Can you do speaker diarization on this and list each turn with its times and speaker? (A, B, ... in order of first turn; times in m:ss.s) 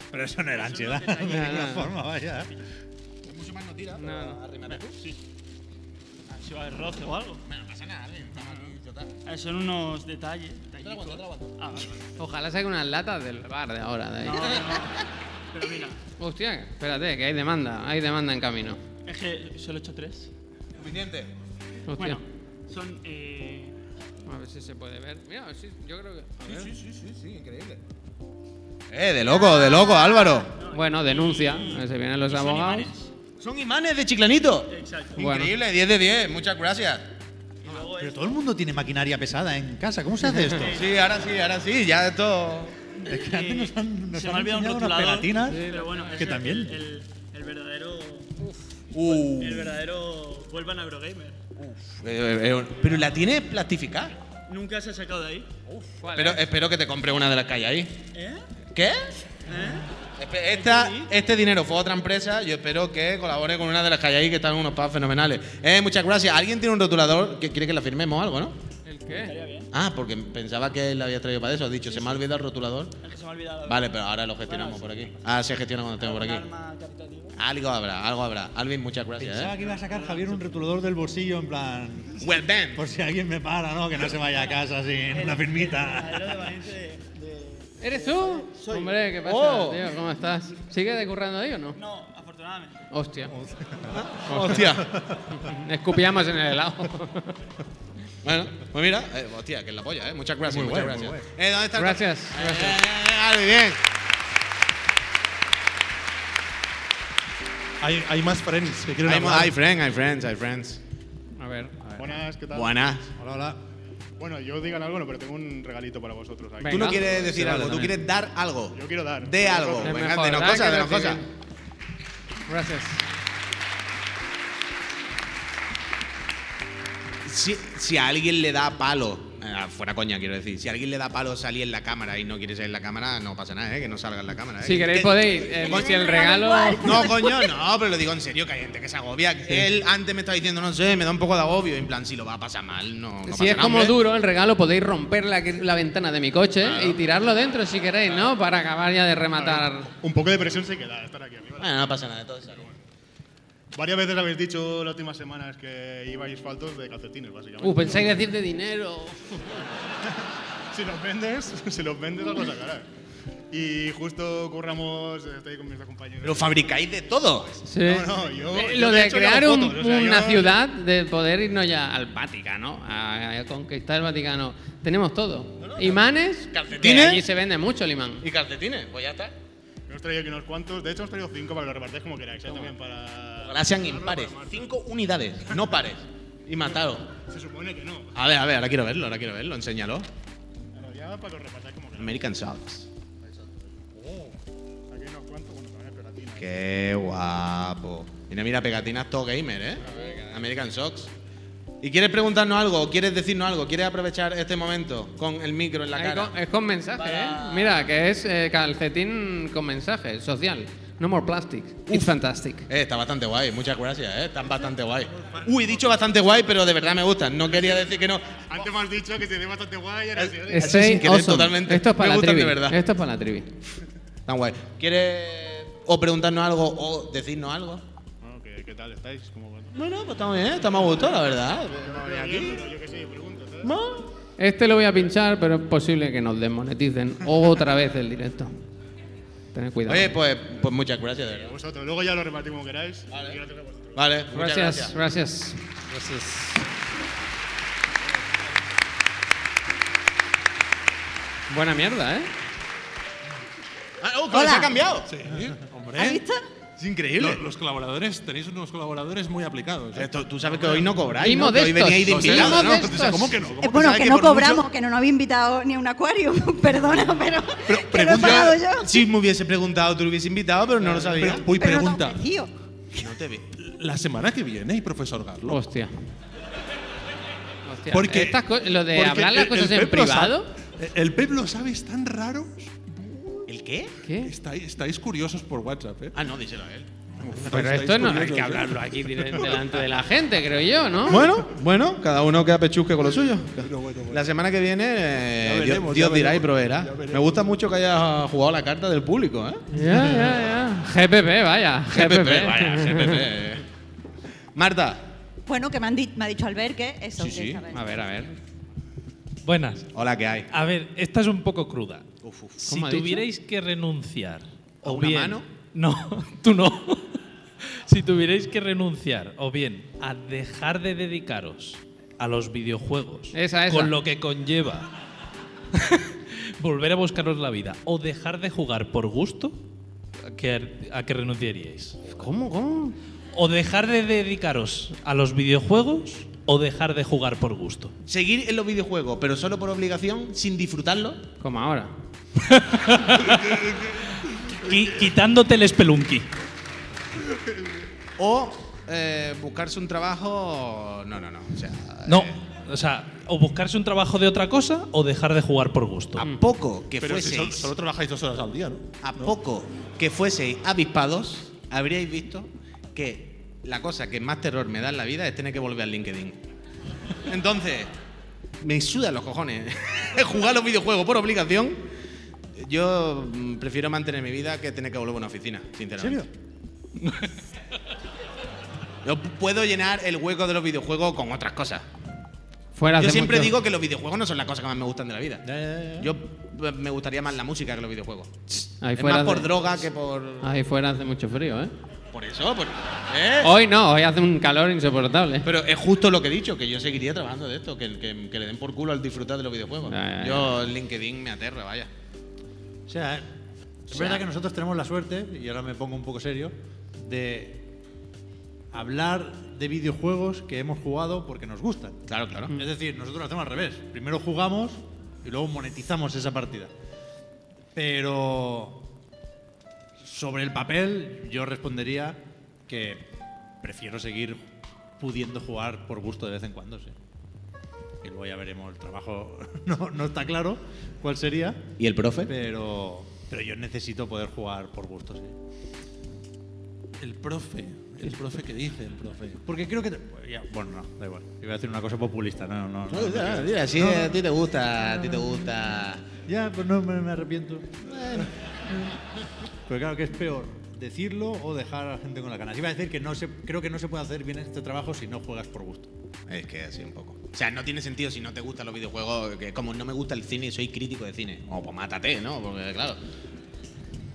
0:00.1-0:02.5 A
0:00.5-0:01.9 B
0:01.2-0:01.9 C
0:03.2-0:05.0 D
0:04.0-0:04.4 C
0:06.3-0:07.4 B
0:07.4-0:09.1 D
0:09.2-0:12.0 B
0:10.8-0:11.6 D
0:12.2-0:14.6 C
0:14.2-0:16.0 B
0:16.2-0:18.8 C
0:19.0-0:20.3 B
0:20.8-0:21.3 D
0:21.9-0:22.2 C
0:22.0-0:23.7 B
0:24.2-0:26.7 C
0:26.4-0:27.8 D
0:28.9-0:30.5 D
0:29.3-0:30.4 E
0:30.5-0:33.1 B
0:30.7-0:32.9 C
0:33.4-0:37.1 D
0:34.7-0:35.3 B
0:35.2-0:35.5 C
0:37.6-0:38.4 B
0:38.0-0:40.8 A
0:40.6-0:40.8 B
0:40.6-0:42.8 D
0:43.0-0:46.8 A
0:43.0-0:48.4 B
0:45.5-0:46.3 C
0:48.9-0:49.8 D
0:49.0-0:51.4 B
0:51.6-0:54.2 D
0:54.5-0:55.5 B
0:55.7-0:58.0 D
0:56.0-0:56.4 C
0:58.1-0:58.4 B
0:58.7-0:59.1 D
0:59.4-0:59.9 B
1:00.2-1:08.6 D
1:00.5-1:01.1 B
1:08.8-1:09.3 C
1:09.1-1:09.7 B
1:09.7-1:12.9 D
1:13.0-1:15.2 B
1:13.6-1:16.4 D
1:16.0-1:17.4 B
1:17.4-1:19.5 D
1:19.2-1:26.5 A
1:19.5-1:20.6 B
1:22.2-1:22.8 D
1:24.3-1:29.1 B
1:27.8-1:31.8 C
1:29.2-1:29.9 D
1:31.7-1:32.9 B
1:32.9-1:33.3 C
1:33.3-1:34.0 A
1:33.9-1:34.9 D
1:34.3-1:34.7 C
1:34.6-1:35.1 A
1:35.3-1:37.4 C
1:38.2-1:43.8 D
1:40.4-1:41.2 A
1:41.7-1:42.8 C
1:47.8-1:49.5 F
1:49.0-1:50.8 D
1:51.4-1:52.2 C
1:52.0-1:52.8 G
1:52.5-1:53.0 D
1:53.2-1:53.6 A
1:54.2-1:57.3 G
1:56.6-1:57.1 C
1:56.7-2:01.2 D
1:57.2-1:57.9 A
1:58.7-2:00.0 G
1:59.8-2:01.2 C
2:02.5-2:03.0 C
2:07.2-2:16.0 D
2:14.6-2:17.1 C
2:15.6-2:17.5 E
2:16.8-2:24.0 D
2:23.2-2:29.9 C
2:26.6-2:27.0 D
2:29.4-2:31.9 G
2:31.6-2:32.6 D
2:33.7-2:38.2 G
2:37.6-2:39.4 C
2:40.7-2:42.8 G
2:43.5-2:46.8 G
2:46.2-2:47.5 D
2:47.6-2:58.2 C
2:47.8-2:50.6 G
2:55.6-2:56.0 D
2:56.5-2:57.2 D
2:58.2-2:59.3 D
2:59.9-3:04.7 G
3:03.4-3:07.1 D
3:07.2-3:08.2 G
3:08.1-3:10.1 D
3:10.7-3:12.3 G
3:12.0-3:12.9 D
3:13.2-3:13.5 G
3:14.9-3:16.5 G
3:16.4-3:21.1 D
3:19.8-3:20.3 C
3:21.8-3:26.3 D
3:25.9-3:32.7 C
3:27.0-3:27.7 D
3:31.9-3:32.1 D
3:32.7-3:38.6 D
3:38.5-3:40.8 G
3:40.2-3:42.8 D
3:40.5-3:43.5 C
3:44.3-3:47.8 D
3:48.2-3:49.7 G
3:49.7-3:52.6 D
3:51.8-3:53.7 G
3:53.6-3:54.1 D
3:54.4-3:58.5 C
3:59.5-4:00.1 C
3:59.9-4:01.5 D
4:01.4-4:04.0 G
4:03.1-4:03.4 D
4:03.9-4:05.0 D
4:04.3-4:06.6 C
4:11.5-4:12.3 C
4:14.0-4:15.1 D
4:14.3-4:14.7 E
4:15.1-4:16.2 F
4:15.9-4:16.4 E
4:16.8-4:17.4 D
4:17.2-4:20.9 F
4:19.9-4:24.7 D
4:21.2-4:23.3 C
4:22.0-4:23.9 F
4:23.6-4:29.0 E
4:27.6-4:28.6 F
4:28.2-4:31.5 D
4:30.8-4:31.1 C
4:31.1-4:32.2 F
4:31.4-4:32.5 E
4:32.9-4:33.4 D
4:33.6-4:35.6 F
4:35.5-4:35.9 C
4:37.6-4:40.5 C
4:37.9-4:43.4 F
4:43.5-4:43.9 D
4:44.0-4:44.3 C
4:44.2-4:46.2 F
4:46.1-4:46.9 D
4:47.2-4:49.6 F
4:47.3-4:51.3 C
4:51.0-4:59.6 D
4:53.6-4:54.3 F
4:55.4-4:57.4 F
4:59.7-5:03.2 C
5:01.9-5:03.6 D
5:04.5-5:05.1 D
5:05.4-5:08.0 E
5:07.2-5:07.6 D
5:07.7-5:08.3 C
5:09.4-5:09.9 H
5:09.9-5:10.5 D
5:10.5-5:12.0 H
5:12.2-5:12.6 D
5:12.6-5:17.2 H
5:12.6-5:13.2 C
5:14.8-5:15.5 D
5:17.8-5:24.9 H
5:23.3-5:23.9 C
5:25.7-5:29.6 H
5:30.2-5:32.2 H
5:32.1-5:32.9 C
5:33.3-5:37.9 H
5:38.0-5:41.2 D
5:41.4-5:41.9 C
5:42.5-5:43.5 H
5:44.6-5:46.3 H
5:48.2-5:52.4 D
5:52.1-5:56.2 H
5:56.2-5:57.7 D
5:57.0-5:59.3 F
5:59.0-6:06.4 D
6:07.2-6:07.9 D
6:08.6-6:11.8 D
6:12.6-6:16.3 D
6:16.0-6:16.3 A
6:19.0-6:21.8 D
6:22.7-6:23.5 C
6:23.0-6:25.4 D
6:25.4-6:26.1 A
6:26.0-6:28.3 D
6:28.8-6:29.5 C
6:29.0-6:30.5 D
6:30.4-6:31.7 C
6:32.1-6:33.5 D
6:33.4-6:35.4 C
6:35.4-6:41.9 D
6:39.9-6:40.6 C
6:42.9-6:43.2 A
6:43.9-6:47.6 A
6:48.7-6:56.7 A
6:52.1-6:52.5 D
6:57.7-6:58.8 A
7:00.0-7:03.0 A
7:03.6-7:04.4 A
7:05.0-7:06.9 A
7:08.0-7:11.6 A
7:11.8-7:12.3 D
7:12.2-7:15.4 A
7:17.0-7:19.4 F
7:19.4-7:24.2 A
7:22.9-7:26.0 D
7:26.2-7:27.8 A
7:27.8-7:28.3 D
7:29.7-7:35.9 A
7:36.3-7:43.0 D